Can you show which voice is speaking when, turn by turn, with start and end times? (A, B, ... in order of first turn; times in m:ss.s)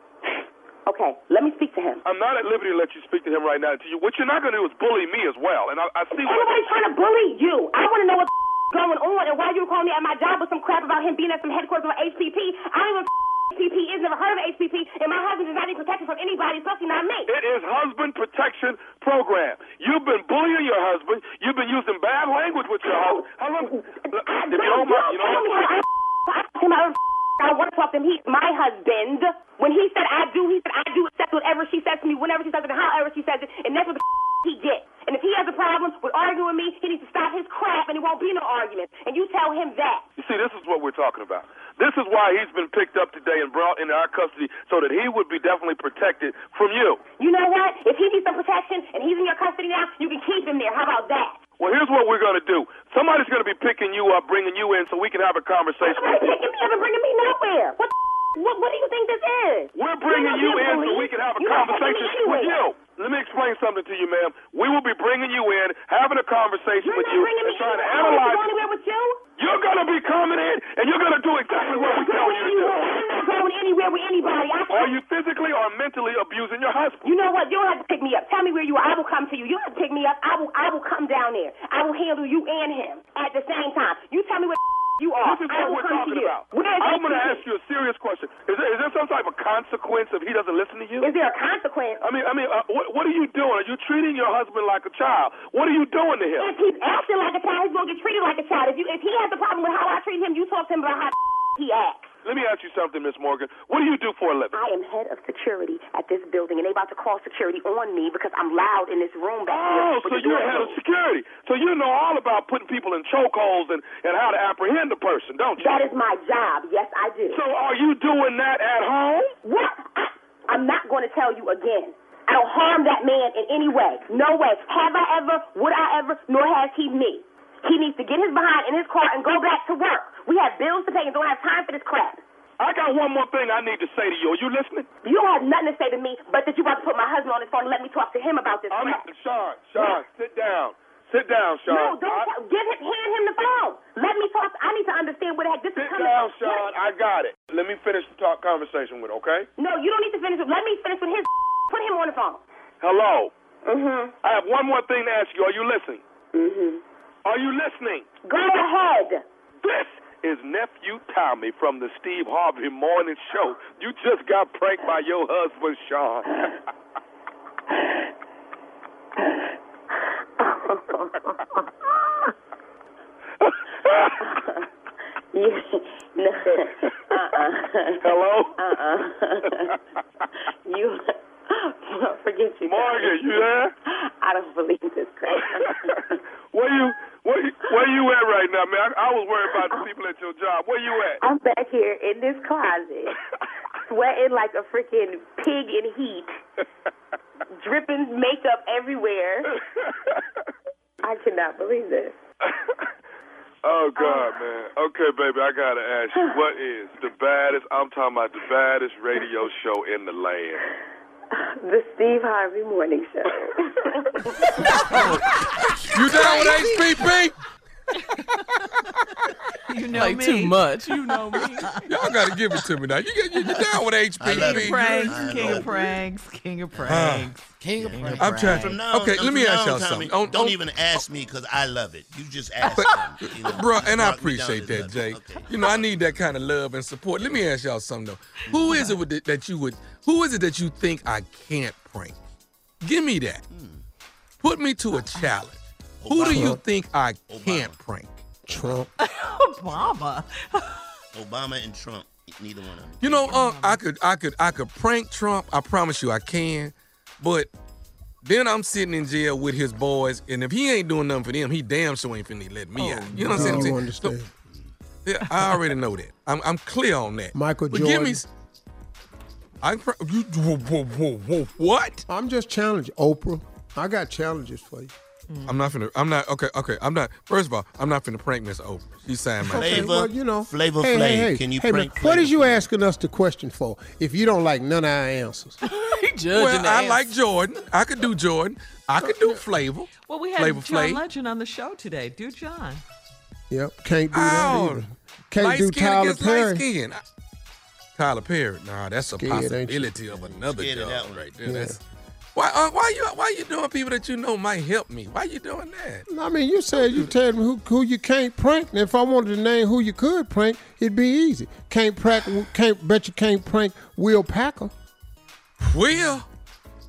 0:00.9-0:02.0 A
0:02.0-0:06.7 B
0:06.2-0:17.3 A
0:17.3-0:25.8 B
0:22.9-0:40.0 A
0:40.2-0:47.0 B
0:47.2-0:51.4 A
0:51.6-0:56.3 B
0:55.8-1:02.6 A
0:59.7-1:08.4 B
1:06.8-1:09.2 A
1:09.4-1:12.8 B
1:11.5-1:15.0 A
1:14.7-1:17.0 B
1:17.0-1:27.4 A
1:25.2-1:31.1 B
1:31.0-1:32.0 A
1:32.0-1:36.6 B
1:36.4-1:42.1 A
1:42.2-1:44.6 B
1:44.5-1:50.8 A
1:49.5-1:55.7 B
1:55.6-1:57.4 A
1:57.3-1:59.4 B
1:59.4-2:12.2 A
2:12.6-2:14.9 B
2:15.0-2:19.0 A
2:18.7-2:22.3 B
2:21.7-2:26.7 A
2:25.8-2:29.5 B
2:29.6-2:32.4 A
2:32.8-2:33.3 B
2:33.6-2:34.2 A
2:34.2-2:36.0 B
2:36.3-2:36.8 A
2:37.2-2:38.1 B
2:38.2-2:39.2 A
2:39.6-2:46.6 B
2:50.4-2:51.6 A
2:53.4-2:54.2 B
2:54.2-2:54.7 A
2:55.3-2:59.7 A
2:58.0-2:58.6 B
3:00.7-3:06.2 A
3:02.7-3:03.7 B
3:05.3-3:11.2 B
3:09.6-3:09.9 A
3:11.2-3:13.2 A
3:13.8-3:16.4 A
3:17.6-3:19.6 A
3:19.7-3:20.2 B
3:21.0-3:22.2 A
3:22.5-3:22.8 B
3:23.6-3:30.7 B
3:24.0-3:24.3 A
3:31.3-3:34.6 A
3:35.9-3:37.4 C
3:36.4-3:36.7 D
3:39.6-3:41.9 D
3:39.9-3:41.8 E
3:41.8-3:45.7 C
3:43.4-3:46.0 F
3:44.3-3:48.7 D
3:46.7-3:56.3 F
3:46.9-3:47.4 C
3:47.6-3:48.2 E
3:48.1-3:50.6 C
3:52.7-4:02.2 C
3:58.4-3:59.0 F
4:02.8-4:03.4 C
4:03.5-4:03.8 F
4:04.4-4:08.2 C
4:06.0-4:06.6 F
4:06.3-4:06.6 G
4:07.3-4:07.8 F
4:08.4-4:08.9 G
4:09.0-4:10.9 D
4:11.1-4:13.4 F
4:13.0-4:17.5 C
4:13.3-4:13.8 D
4:18.2-4:24.2 C
4:22.8-4:23.7 D
4:22.9-4:23.5 E
4:23.2-4:24.3 G
4:25.0-4:28.3 C
4:27.3-4:28.2 G
4:29.6-4:32.0 C
4:32.1-4:34.9 G
4:35.3-4:35.7 D
4:35.5-4:39.9 C
4:39.4-4:45.6 G
4:39.5-4:42.7 F
4:45.6-4:47.2 E
4:46.3-4:51.0 C
4:49.0-4:49.4 G
4:50.0-4:52.8 D
4:53.5-4:56.6 G
4:54.1-4:54.8 C
4:55.4-4:57.0 C
4:58.0-5:01.8 C
4:59.1-5:00.0 G
5:00.2-5:01.3 F
5:01.4-5:01.8 G
5:02.4-5:06.0 C
5:06.1-5:14.7 G
5:06.7-5:07.1 C
5:15.7-5:16.3 C